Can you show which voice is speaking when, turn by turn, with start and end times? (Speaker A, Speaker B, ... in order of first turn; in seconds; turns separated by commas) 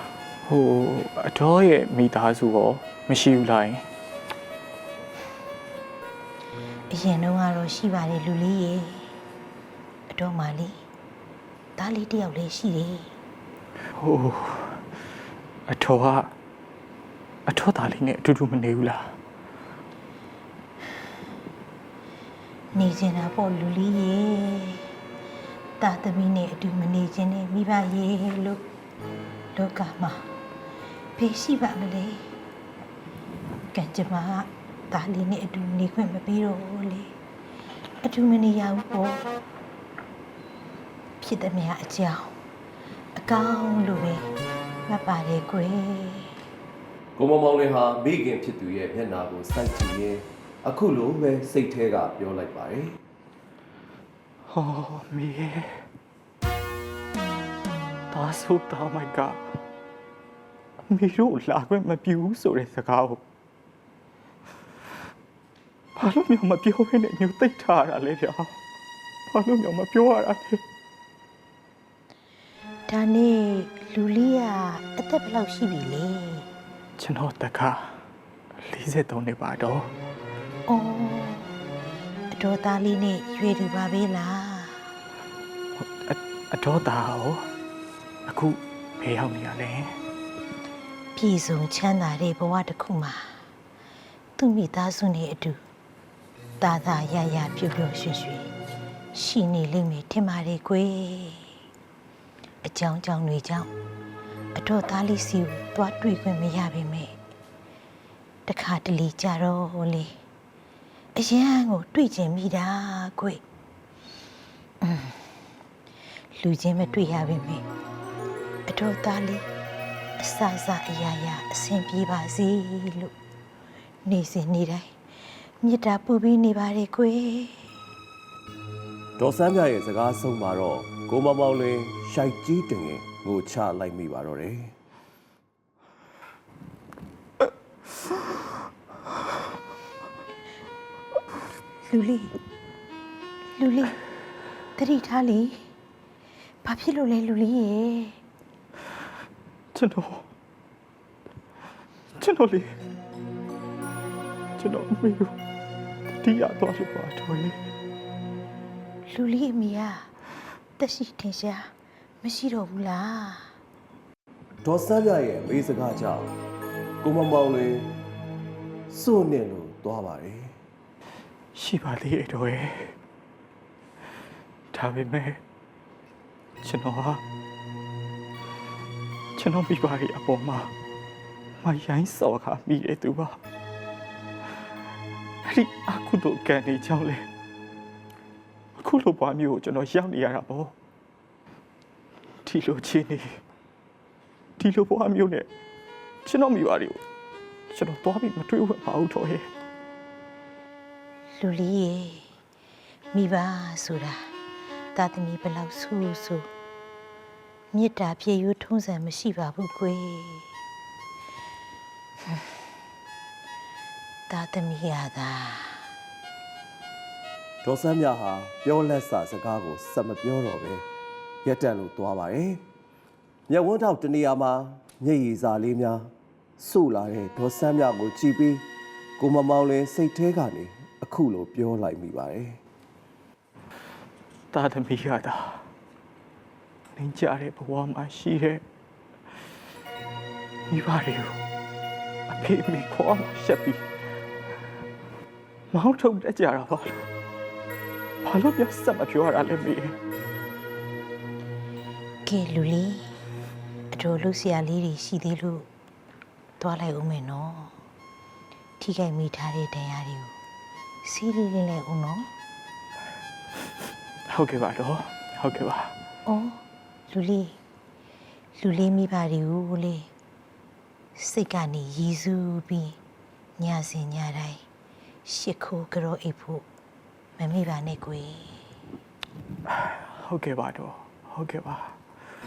Speaker A: 0.5-3.8, Speaker B: 6.9-9.1, Speaker B: 10.1-10.8, Speaker B: 11.8-13.1, Speaker A: 14.0-14.8, Speaker A: 15.7-16.3, Speaker A: 17.5-19.1, Speaker B: 22.7-24.9, Speaker B: 25.8-28.6, Speaker B: 29.5-30.3, Speaker B: 31.1-32.2, Speaker B: 33.7-37.1, Speaker B: 38.0-39.3, Speaker B: 41.2-42.4, Speaker B: 43.1-44.3, Speaker B: 44.9-46.4, Speaker C: 47.2-53.0, Speaker A: 54.5-55.8, Speaker A: 58.1-59.5, Speaker A: 60.9-63.2, Speaker A: 66.0-68.5, Speaker A: 69.3-70.6, Speaker B: 72.9-76.5, Speaker A: 77.0-78.0, Speaker A: 78.6-79.9, Speaker B: 80.7-81.5, Speaker B: 82.3-84.9, Speaker A: 85.8-87.5, Speaker A: 88.3-90.0, Speaker B: 91.1-93.3, Speaker B: 94.4-95.6, Speaker B: 96.6-98.5, Speaker B: 99.1-101.6, Speaker B: 102.6-103.7, Speaker B: 104.5-107.1, Speaker B: 108.5-110.1, Speaker B: 111.1-113.4, Speaker B: 114.8-115.3, Speaker B: 116.3-117.6, Speaker B: 118.7-119.5, Speaker B: 120.2-123.1, Speaker B: 124.0-124.9, Speaker B: 125.6-127.8, Speaker C: 129.2-134.7, Speaker B: 141.8-142.3, Speaker B: 143.6-143.9, Speaker B: 144.8-145.7, Speaker B: 146.6-148.2, Speaker A: 149.7-150.2, Speaker A: 152.2-152.7, Speaker A: 154.6-155.3, Speaker A: 156.1-157.6, Speaker B: 159.1-160.1, Speaker B: 160.8-161.7, Speaker B: 162.2-163.5, Speaker C: 164.6-166.3, Speaker C: 167.0-167.9, Speaker C: 168.9-170.6, Speaker A: 171.5-172.9, Speaker A: 174.7-175.4, Speaker A: 176.6-177.2, Speaker A: 179.4-180.7, Speaker A: 181.6-183.4, Speaker A: 185.4-187.3, Speaker A: 188.8-190.7, Speaker A: 192.4-193.4, Speaker A: 194.6-195.5, Speaker A: 196.2-197.0, Speaker A: 197.7-199.5, Speaker B: 201.4-202.3, Speaker B: 203.1-204.3, Speaker B: 204.9-206.5, Speaker B: 207.7-210.5, Speaker B: 214.3-215.9, Speaker C: 217.6-220.8, Speaker C: 221.4-222.6, Speaker C: 223.5-228.7, Speaker C: 229.2-232.6, Speaker A: 234.5-235.7, Speaker A: 236.9-238.6, Speaker A: 240.7-241.4, Speaker A: 242.3-243.8, Speaker A: 245.7-247.1, Speaker A: 248.2-250.0, Speaker B: 252.2-253.2, Speaker B: 253.9-255.7, Speaker B: 256.6-257.8, Speaker B: 258.8-260.3, Speaker B: 261.0-262.3, Speaker A: 264.3-265.9, Speaker B: 266.3-267.6, Speaker B: 268.6-270.1, Speaker B: 271.1-273.0, Speaker B: 273.6-274.6, Speaker B: 275.2-276.6, Speaker B: 277.4-278.6, Speaker A: 279.8-281.9